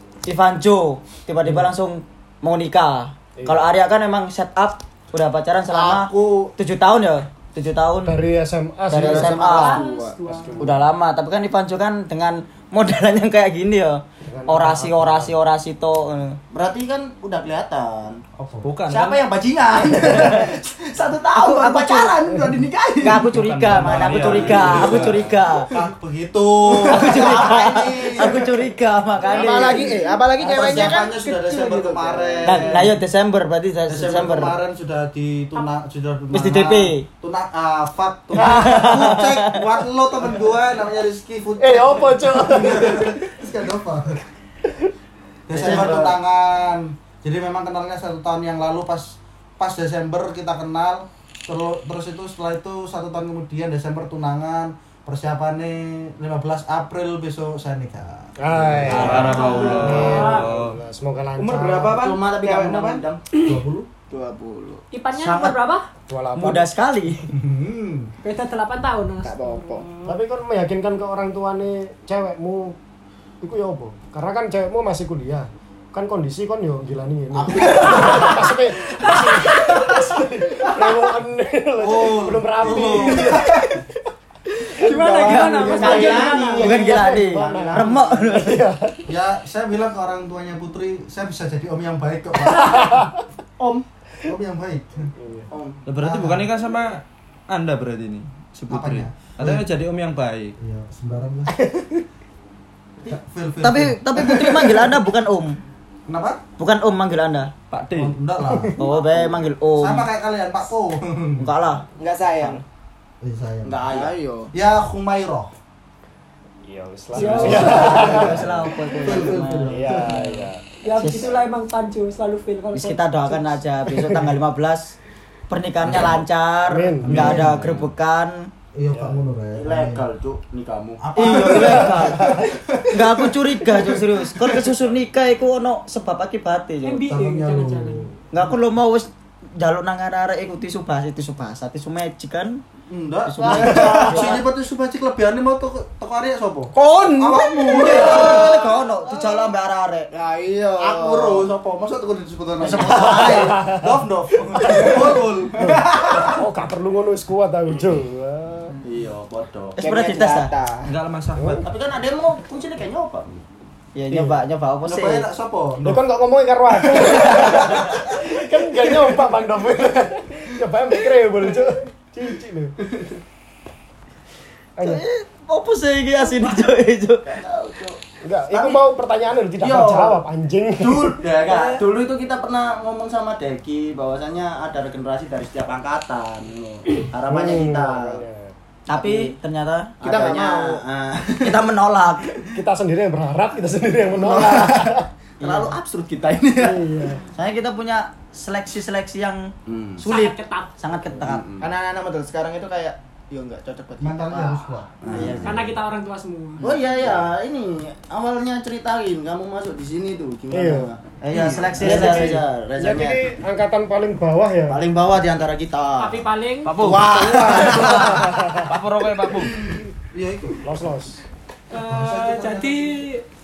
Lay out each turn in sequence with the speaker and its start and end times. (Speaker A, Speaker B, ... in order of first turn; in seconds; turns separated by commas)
Speaker A: 0.2-8.2, Speaker B: 3.4-3.7, Speaker C: 5.8-6.5, Speaker B: 8.1-9.4, Speaker A: 8.9-9.8, Speaker C: 8.9-10.2, Speaker D: 9.4-10.7, Speaker B: 10.3-10.8, Speaker A: 10.6-16.4, Speaker B: 14.2-15.4, Speaker E: 16.5-18.2, Speaker F: 18.4-18.8, Speaker G: 18.6-19.3, Speaker E: 18.9-23.3, Speaker A: 19.9-20.5, Speaker C: 20.2-20.4, Speaker C: 21.3-22.5, Speaker A: 23.0-25.7, Speaker G: 23.2-25.3, Speaker E: 23.9-24.9, Speaker F: 24.2-25.1, Speaker F: 25.7-28.7, Speaker A: 26.9-29.9, Speaker E: 26.9-28.0, Speaker C: 29.2-32.8, Speaker F: 29.3-33.0, Speaker A: 32.4-34.6, Speaker F: 33.9-44.2, Speaker A: 36.3-37.1, Speaker A: 38.3-39.5, Speaker B: 38.4-39.2, Speaker B: 41.6-43.3, Speaker F: 45.5-60.3, Speaker A: 45.5-46.2, Speaker B: 45.7-46.0, Speaker B: 58.4-62.1, Speaker G: 58.9-60.8, Speaker D: 59.1-60.5, Speaker E: 61.4-63.2, Speaker C: 61.7-63.0, Speaker F: 63.3-63.9, Speaker C: 64.1-64.8, Speaker D: 64.9-65.9, Speaker A: 65.1-65.6, Speaker B: 66.1-66.7, Speaker A: 66.4-67.3, Speaker F: 67.3-68.1, Speaker D: 68.2-70.2, Speaker C: 69.2-69.9, Speaker B: 70.0-72.8, Speaker B: 73.4-83.7, Speaker F: 77.4-78.5, Speaker D: 79.0-80.0, Speaker F: 81.8-83.7, Speaker D: 84.8-87.2, Speaker A: 84.8-88.6, Speaker C: 84.9-86.8, Speaker B: 85.6-89.1, Speaker F: 87.2-88.3, Speaker F: 89.1-93.0, Speaker F: 94.2-95.1, Speaker B: 95.2-95.5, Speaker E: 95.5-95.8, Speaker G: 95.9-100.5, Speaker F: 96.0-96.5, Speaker F: 98.7-99.7, Speaker F: 100.6-101.7, Speaker F: 103.0-105.1, Speaker A: 103.6-105.6, Speaker F: 106.1-106.4, Speaker A: 106.6-107.5, Speaker G: 107.7-108.2, Speaker F: 107.9-111.5, Speaker B: 108.4-108.7, Speaker A: 108.8-110.1, Speaker A: 111.4-111.8, Speaker C: 112.0-112.6, Speaker F: 113.2-113.9, Speaker E: 113.6-114.1, Speaker C: 113.9-114.5, Speaker F: 114.5-115.5, Speaker B: 116.6-118.5, Speaker D: 117.1-118.1, Speaker A: 117.2-120.3, Speaker F: 117.3-120.3, Speaker B: 119.6-120.7, Speaker D: 120.8-123.5, Speaker A: 121.0-121.3, Speaker A: 122.7-124.9, Speaker A: 125.5-128.5, Speaker F: 125.9-126.1, Speaker B: 126.7-127.4, Speaker F: 127.0-127.6, Speaker G: 127.2-127.6, Speaker E: 127.2-127.9, Speaker F: 128.7-130.0, Speaker B: 128.9-129.2, Speaker E: 129.6-131.8, Speaker F: 131.0-134.6, Speaker A: 131.2-137.1, Speaker B: 131.7-132.4, Speaker D: 136.8-138.1, Speaker F: 137.1-138.6, Speaker A: 138.3-142.6, Speaker F: 142.9-148.8, Speaker A: 143.2-144.4, Speaker C: 143.4-144.4, Speaker C: 146.8-148.5, Speaker A: 147.3-150.1, Speaker E: 147.8-148.4, Speaker C: 150.1-151.5, Speaker F: 150.8-156.4, Speaker A: 152.6-153.6, Speaker B: 152.9-154.0, Speaker B: 154.6-155.1, Speaker B: 155.6-158.7, Speaker E: 158.8-159.8, Speaker C: 159.8-160.9, Speaker A: 159.8-160.5, Speaker G: 160.9-161.7, Speaker B: 161.4-161.6, Speaker E: 161.6-163.4, Speaker A: 163.9-165.3, Speaker B: 164.1-164.4, Speaker F: 164.8-166.1, Speaker B: 165.8-172.7, Speaker F: 166.8-168.2, Speaker B: 174.8-175.0, Speaker A: 174.8-177.4, Speaker E: 177.3-178.0, Speaker B: 178.2-181.2, Speaker E: 179.6-180.2, Speaker E: 180.8-188.2, Speaker B: 187.3-188.5, Speaker A: 188.9-190.3, Speaker E: 188.9-189.3, Speaker E: 190.0-191.6, Speaker C: 190.0-190.8, Speaker A: 191.4-192.3, Speaker B: 192.5-195.1, Speaker E: 194.2-196.8, Speaker A: 195.4-195.7, Speaker B: 196.6-197.2, Speaker A: 197.4-201.4, Speaker E: 199.7-200.0, Speaker D: 200.1-200.7, Speaker E: 201.2-201.7, Speaker C: 201.6-204.9, Speaker F: 204.0-205.7, Speaker E: 205.0-205.6, Speaker A: 205.1-205.5, Speaker D: 205.2-206.7, Speaker E: 206.6-213.2, Speaker F: 206.6-207.2, Speaker B: 210.5-210.9, Speaker A: 211.2-212.5, Speaker F: 211.3-212.2, Speaker B: 211.8-214.8, Speaker E: 214.7-216.2, Speaker D: 216.0-216.9, Speaker G: 216.6-219.6, Speaker E: 216.8-218.3, Speaker D: 217.5-217.8, Speaker B: 217.5-218.7, Speaker F: 219.6-220.6, Speaker B: 220.6-221.2, Speaker D: 221.7-223.2, Speaker F: 221.7-223.0